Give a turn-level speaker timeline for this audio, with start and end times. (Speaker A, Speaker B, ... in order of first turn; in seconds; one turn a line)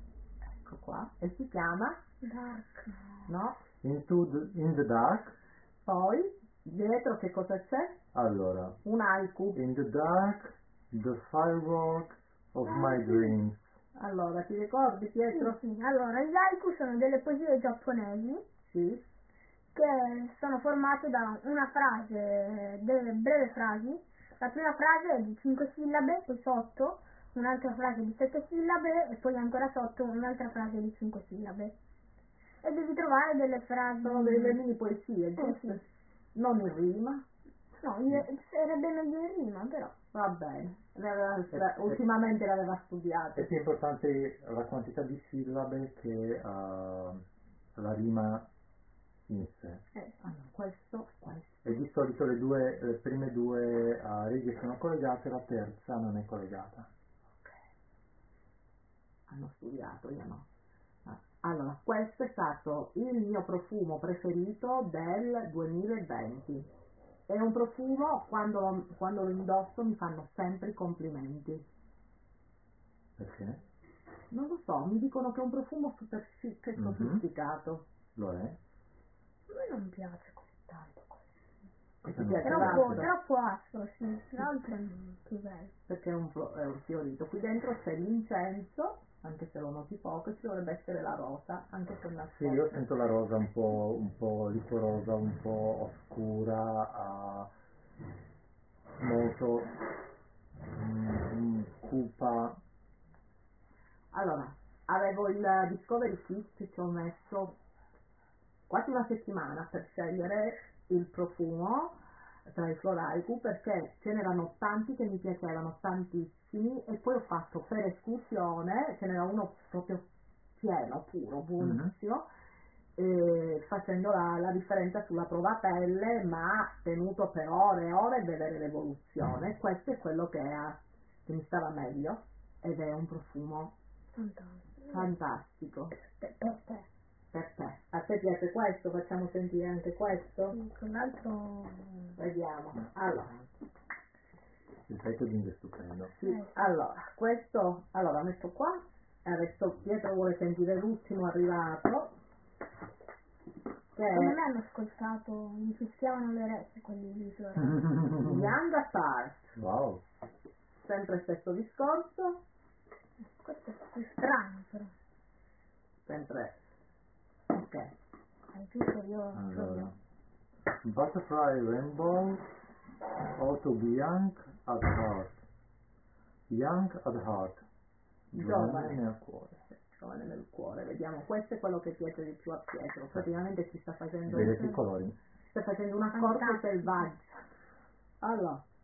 Speaker A: 0.6-2.0
Speaker B: 2.2-3.3
Speaker A: 3.3-3.6
Speaker C: 3.8-5.3
Speaker A: 5.8-8.0
Speaker C: 8.1-8.8
Speaker A: 8.8-9.6
Speaker C: 9.6-13.8
Speaker B: 12.6-13.3
Speaker A: 14.0-15.6
Speaker B: 15.3-18.4
Speaker A: 18.7-19.0
Speaker B: 19.8-31.7
Speaker B: 32.6-34.6
Speaker A: 34.0-35.8
Speaker B: 35.4-35.8
Speaker A: 36.4-37.2
Speaker B: 37.8-39.9
Speaker A: 40.1-43.5
Speaker C: 41.5-42.0
Speaker C: 43.4-47.2
Speaker C: 47.8-48.5
Speaker C: 49.3-49.8
Speaker B: 49.9-50.2
Speaker A: 50.2-51.8
Speaker C: 51.6-56.9
Speaker A: 59.3-60.5
Speaker A: 61.0-66.7
Speaker A: 67.3-71.7
Speaker C: 73.2-73.6
Speaker A: 74.3-77.8
Speaker C: 76.8-77.2
Speaker C: 78.2-78.6
Speaker B: 79.5-81.2
Speaker C: 82.0-83.1
Speaker A: 82.0-83.1
Speaker B: 82.4-85.7
Speaker A: 85.9-92.9
Speaker C: 92.3-97.5
Speaker C: 99.0-99.7
Speaker C: 100.7-102.6
Speaker A: 104.1-107.6
Speaker A: 108.7-111.9
Speaker A: 112.5-122.3
Speaker C: 121.6-121.9
Speaker A: 123.0-133.7
Speaker B: 134.1-135.1
Speaker A: 134.9-135.9
Speaker B: 136.1-136.9
Speaker A: 137.3-140.6
Speaker B: 140.5-142.2
Speaker A: 142.2-143.5
Speaker C: 144.9-146.1
Speaker A: 146.2-152.1
Speaker B: 146.2-146.7
Speaker A: 153.9-154.4
Speaker B: 154.1-157.8
Speaker C: 157.6-158.6
Speaker A: 158.2-159.6
Speaker C: 159.6-160.0
Speaker A: 160.8-162.4
Speaker B: 163.4-164.9
Speaker A: 166.1-166.6
Speaker A: 167.5-167.9
Speaker B: 168.5-169.9
Speaker C: 169.3-169.9
Speaker C: 170.8-172.5
Speaker C: 173.4-175.4
Speaker C: 176.5-177.7
Speaker C: 178.3-179.7
Speaker A: 178.3-179.1
Speaker A: 179.7-184.6
Speaker C: 184.3-185.2
Speaker B: 184.3-184.8
Speaker A: 185.5-187.4
Speaker B: 186.1-187.1
Speaker A: 188.2-188.6